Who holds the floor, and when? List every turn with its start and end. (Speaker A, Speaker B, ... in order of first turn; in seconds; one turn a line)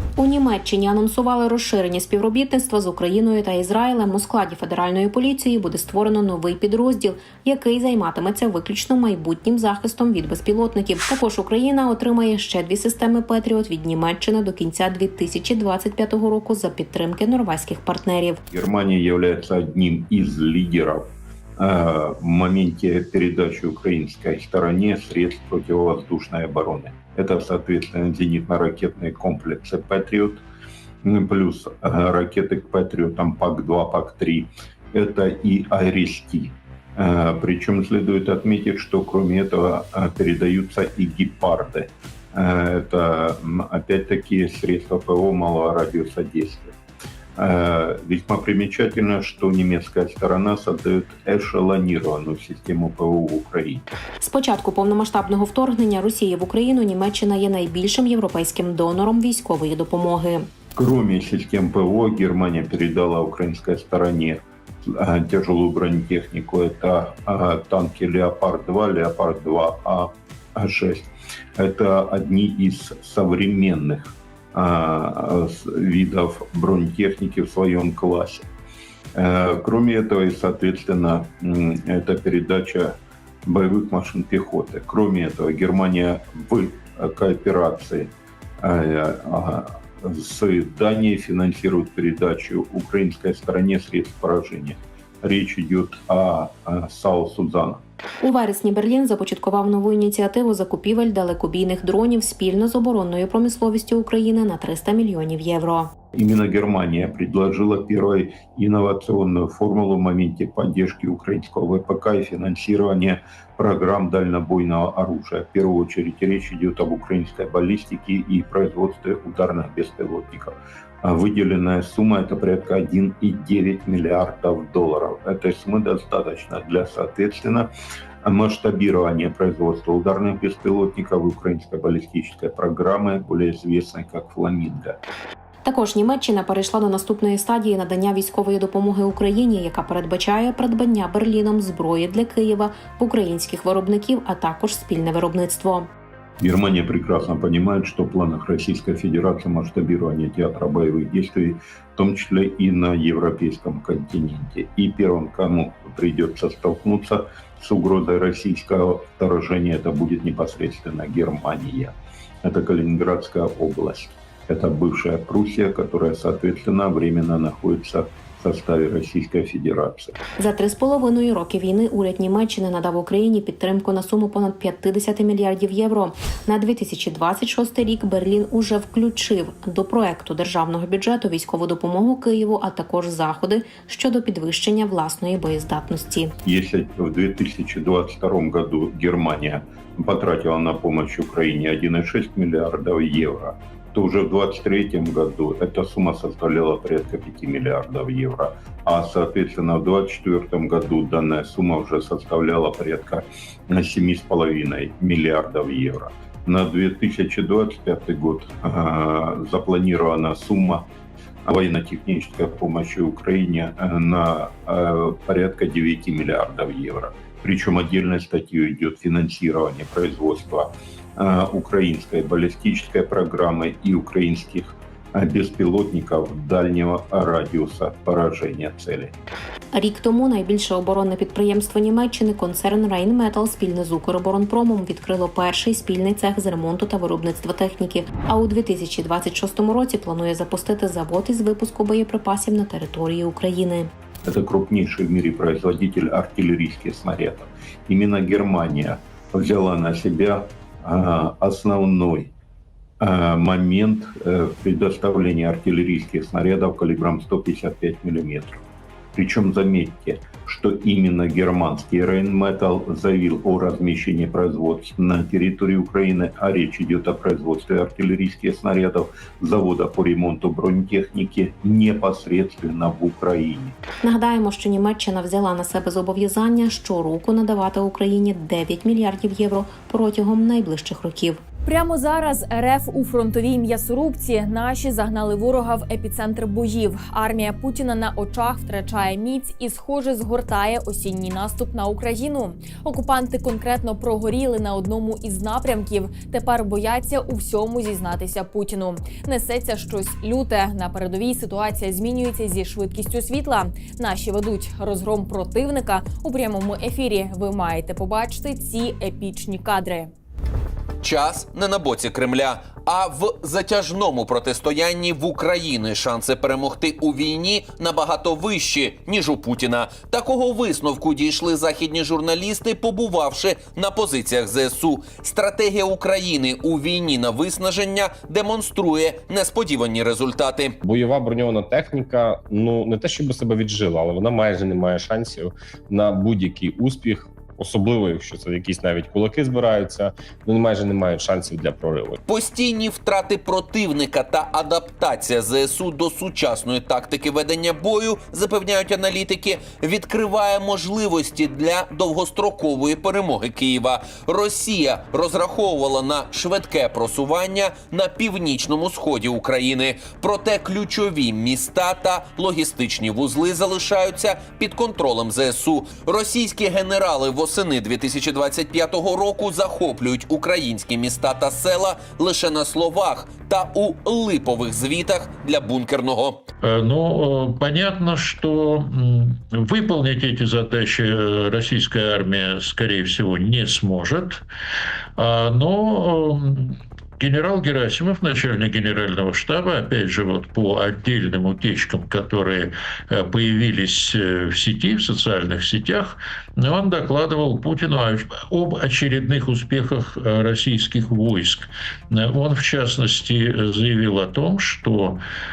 Speaker A: 0.2-18.4
Speaker B: 18.5-21.1
Speaker B: 21.6-30.4
Speaker B: 31.0-46.7
Speaker B: 47.4-53.9
Speaker A: 54.2-60.5
Speaker B: 60.8-78.5
Speaker B: 79.2-97.8
Speaker A: 98.2-105.9
Speaker B: 106.2-127.7
Speaker B: 128.2-135.0
Speaker A: 135.6-145.9
Speaker B: 146.4-170.2
Speaker A: 170.4-186.3
Speaker B: 186.4-210.9
Speaker B: 211.4-229.2
Speaker A: 229.7-243.9
Speaker B: 244.2-252.3
Speaker B: 253.0-258.6
Speaker B: 259.1-273.8
Speaker A: 274.0-281.4
Speaker C: 281.7-310.1
Speaker D: 311.0-330.8
Speaker E: 330.8-342.2
Speaker D: 342.3-376.4
Speaker F: 376.6-384.4
Speaker F: 385.2-405.2